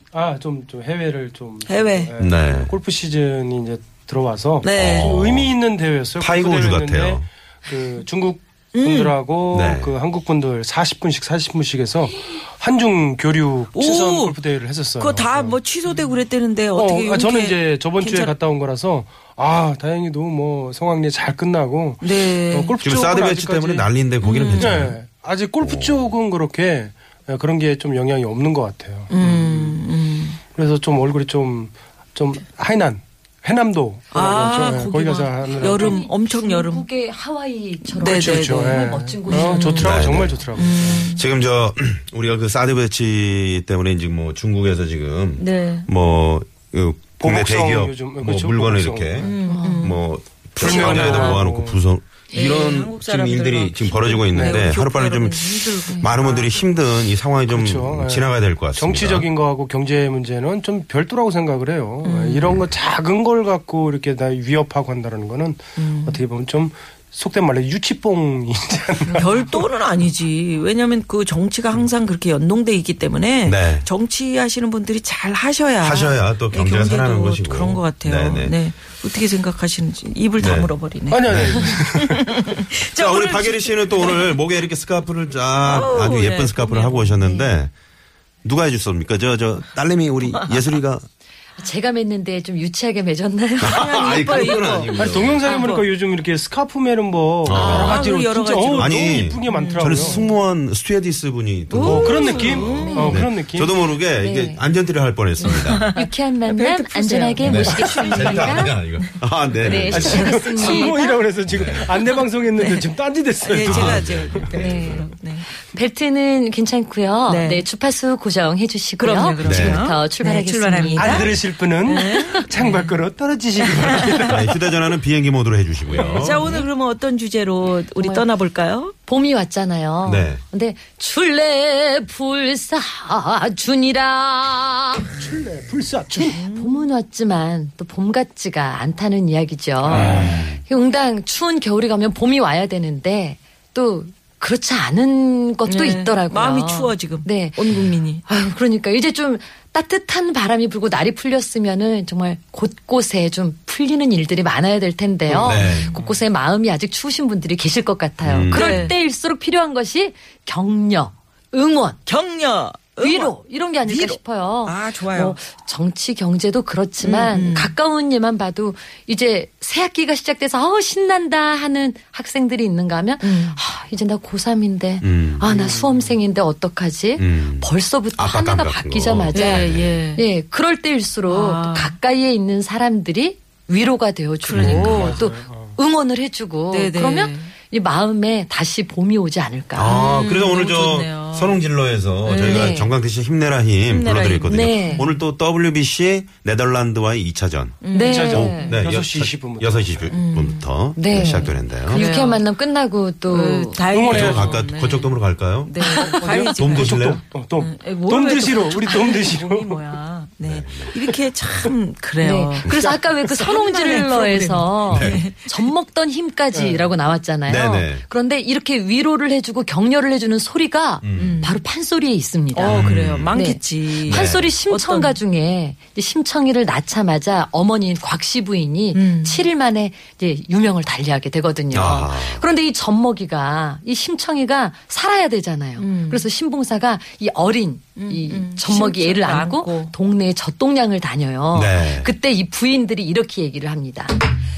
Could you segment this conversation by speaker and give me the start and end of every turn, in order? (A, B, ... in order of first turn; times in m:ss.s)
0:00.1-0:16.1 A
0:01.7-0:02.1 B
0:02.2-0:02.7 C
0:04.6-0:05.2 B
0:04.8-0:05.5 C
0:06.2-0:07.2 C
0:08.8-0:09.2 B
0:09.5-0:09.9 C
0:13.7-0:14.4 B
0:15.0-0:18.3 B
0:16.7-0:23.9 A
0:22.0-0:22.8 B
0:22.8-0:25.0 C
0:24.2-0:24.9 B
0:24.5-0:29.8 A
0:25.6-0:26.1 C
0:29.1-0:30.4 B
0:30.5-0:36.0 A
0:34.1-0:36.8 B
0:35.4-0:40.1 D
0:37.8-0:41.2 B
0:38.0-0:41.2 A
0:39.8-0:40.5 C
0:41.1-0:59.3 C
0:45.4-0:45.9 B
0:47.2-0:49.3 A
0:49.2-0:50.0 B
0:49.5-0:49.9 D
0:50.6-0:51.4 B
0:50.6-0:51.8 A
0:52.3-0:56.6 B
0:54.3-0:54.6 A
0:57.5-1:09.6 A
1:02.0-1:02.6 B
1:05.8-1:06.2 B
1:09.1-1:24.4 B
1:13.4-1:13.9 C
1:15.8-1:18.6 C
1:20.4-1:20.7 C
1:21.1-1:22.2 A
1:21.2-1:21.8 C
1:22.8-1:27.7 C
1:25.6-1:27.4 B
1:27.3-1:27.6 D
1:28.4-1:31.0 C
1:31.6-1:34.5 D
1:33.6-1:35.6 C
1:33.6-1:35.9 B
1:34.9-1:40.2 A
1:37.4-1:38.1 C
1:37.5-1:40.3 B
1:38.8-1:45.9 C
1:41.7-1:43.2 B
1:41.7-1:43.2 D
1:41.7-1:43.8 A
1:44.1-1:44.7 D
1:45.4-1:48.7 D
1:45.4-1:48.7 B
1:47.4-1:50.3 C
1:49.6-1:51.2 D
1:49.8-1:54.5 A
1:49.8-1:51.1 B
1:51.5-1:51.8 C
1:52.0-1:52.8 B
1:53.4-1:55.5 B
1:53.6-1:55.1 C
1:54.5-1:55.1 D
1:55.7-2:01.4 D
1:57.3-1:57.7 B
1:59.0-2:03.0 B
1:59.4-1:59.9 C
2:00.9-2:04.6 A
2:01.9-2:02.4 D
2:04.0-2:04.3 B
2:04.3-2:06.5 C
2:05.9-2:08.9 B
2:06.2-2:06.7 D
2:08.0-2:08.2 D
2:09.1-2:15.1 D
2:10.0-2:10.4 C
2:15.2-2:16.4 A
2:16.2-2:27.7 D
2:16.3-2:16.8 B
2:19.9-2:20.6 C
2:19.9-2:20.2 A
2:25.7-2:28.2 B
2:28.2-2:42.0 D
2:35.4-2:35.9 C
2:35.4-2:36.1 B
2:38.2-2:38.8 C
2:38.5-2:38.9 B
2:42.0-2:45.4 B
2:43.0-3:10.0 D
2:47.0-2:47.7 B
2:53.2-2:53.6 B
2:55.0-2:55.5 C
2:55.5-2:56.2 A
2:57.2-3:00.0 C
2:59.3-3:00.2 B
3:01.3-3:02.0 B
3:04.4-3:05.3 B
3:04.6-3:05.0 C
3:04.8-3:05.8 A
3:06.7-3:07.5 B
3:09.7-3:22.0 C
3:09.8-3:11.6 B
3:12.2-3:12.7 B
3:12.4-3:12.9 D
3:13.8-3:15.2 B
3:14.5-3:15.1 D
3:17.8-3:18.5 B
3:17.9-3:18.8 D
3:18.0-3:19.9 A
3:20.1-3:20.6 B
3:21.0-3:23.8 D
3:21.9-3:22.4 B
3:23.3-3:35.7 B
3:23.9-3:24.6 A
3:24.1-3:25.7 C
3:25.8-3:26.3 D
3:26.2-3:29.8 A
3:26.5-3:27.2 C
3:30.4-3:31.0 C
3:32.2-4:04.2 D
3:32.6-3:33.0 C
3:34.9-3:35.2 C
3:36.5-3:36.9 A
3:37.5-3:38.0 C
3:41.0-3:41.4 C
3:41.2-3:41.6 B
3:42.5-3:45.2 B
3:42.7-3:43.3 C
3:44.0-3:44.5 C
3:48.9-3:49.5 B
3:51.7-3:52.5 C
3:55.8-3:56.3 B
3:58.0-3:59.9 B
4:01.5-4:02.1 C